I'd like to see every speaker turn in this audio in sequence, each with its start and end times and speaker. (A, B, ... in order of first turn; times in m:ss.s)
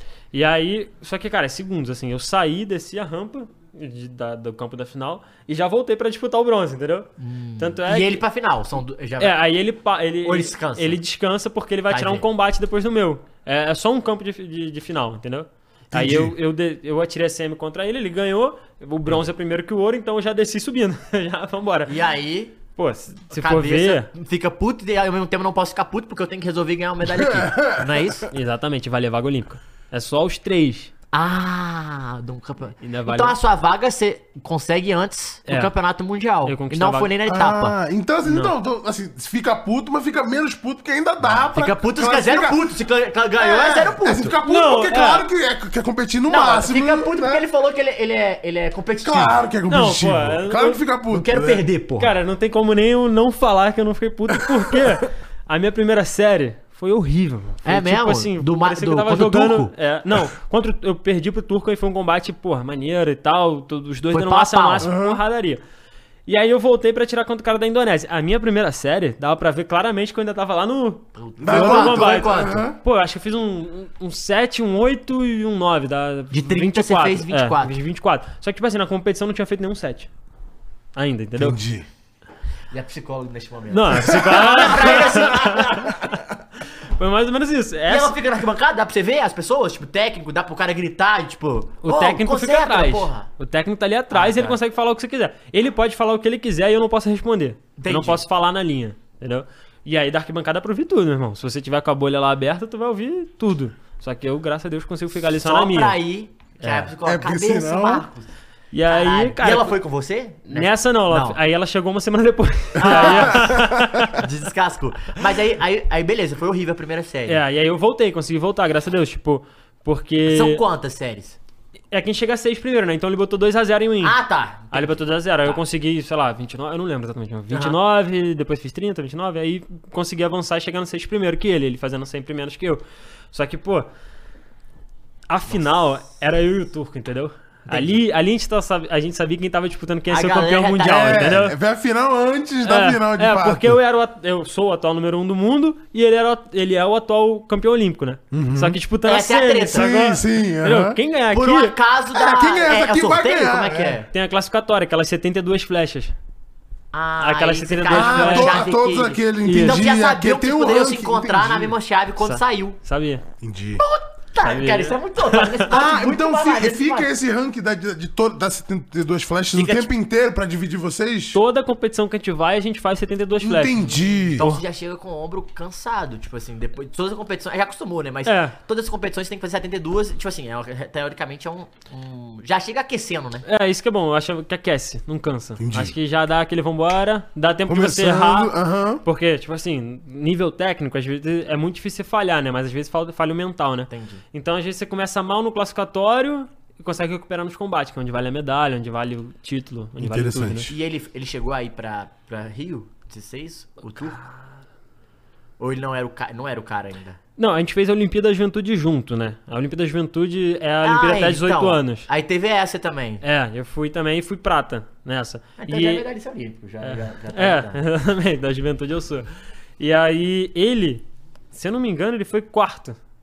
0:00.3-0:08.2 A
0:07.2-0:09.4 B
0:09.2-0:22.0 A
0:10.2-0:11.0 B
0:11.9-0:12.2 B
0:15.9-0:16.3 C
0:21.9-0:22.6 B
0:22.8-0:24.1 A
0:23.3-0:28.3 B
0:27.0-0:28.2 C
0:28.3-0:30.9 A
0:31.1-0:37.8 B
0:32.8-0:33.4 A
0:35.5-0:35.7 A
0:36.4-0:37.1 A
0:37.3-0:42.6 C
0:38.2-0:38.5 A
0:41.5-0:44.4 B
0:43.4-0:47.4 C
0:44.4-0:45.2 A
0:46.3-0:49.4 B
0:49.0-0:51.6 C
0:49.7-0:50.8 A
0:51.1-0:52.1 B
0:52.0-1:05.6 A
0:57.6-0:59.7 B
1:04.1-1:04.9 B
1:04.8-1:05.2 C
1:06.3-1:20.1 A
1:11.2-1:12.7 B
1:11.4-1:12.8 C
1:16.3-1:17.8 B
1:20.9-1:21.6 A
1:21.4-1:21.9 C
1:22.7-1:26.0 B
1:23.7-1:26.1 A
1:27.0-1:28.2 A
1:27.9-1:33.3 B
1:31.8-1:46.0 A
1:34.1-1:34.6 B
1:37.8-1:38.2 B
1:45.4-1:48.3 B
1:46.6-1:46.9 A
1:47.0-1:48.1 C
1:48.7-1:49.8 A
1:48.8-1:51.4 B
1:50.5-1:54.2 A
1:52.8-1:53.5 B
1:52.8-1:54.1 C
1:54.1-1:57.4 B
1:57.3-2:00.6 A
2:00.2-2:01.4 B
2:01.9-2:04.2 A
2:04.0-2:05.6 B
2:04.7-2:13.9 A
2:07.5-2:07.8 B
2:15.3-2:21.6 A
2:17.7-2:18.0 B
2:20.1-2:21.3 B
2:20.9-2:23.8 C
2:22.6-2:31.7 A
2:28.3-2:28.8 C
2:29.0-2:29.9 B
2:29.7-2:31.0 C
2:31.3-2:34.1 B
2:32.1-2:34.0 C
2:34.1-2:36.1 A
2:36.9-2:42.8 B
2:37.2-2:38.7 A
2:37.9-2:41.7 C
2:39.4-2:39.8 A
2:42.2-2:43.2 A
2:43.4-2:43.8 C
2:43.8-2:47.1 B
2:44.4-2:45.6 A
2:45.7-2:51.4 C
2:49.6-2:49.8 B
2:51.3-2:54.6 A
2:53.4-2:54.4 C
2:54.3-3:03.4 B
2:58.2-2:58.5 A
3:03.4-3:08.5 A
3:05.6-3:05.9 C
3:07.7-3:09.0 C
3:09.0-3:20.7 A
3:13.9-3:14.2 B
3:20.0-3:20.7 C
3:20.7-3:24.2 B
3:25.6-3:27.2 B
3:27.4-3:32.1 A
3:30.8-3:33.2 B
3:33.2-3:36.0 A
3:35.6-3:37.8 B
3:36.8-3:39.3 A
3:39.8-3:43.0 A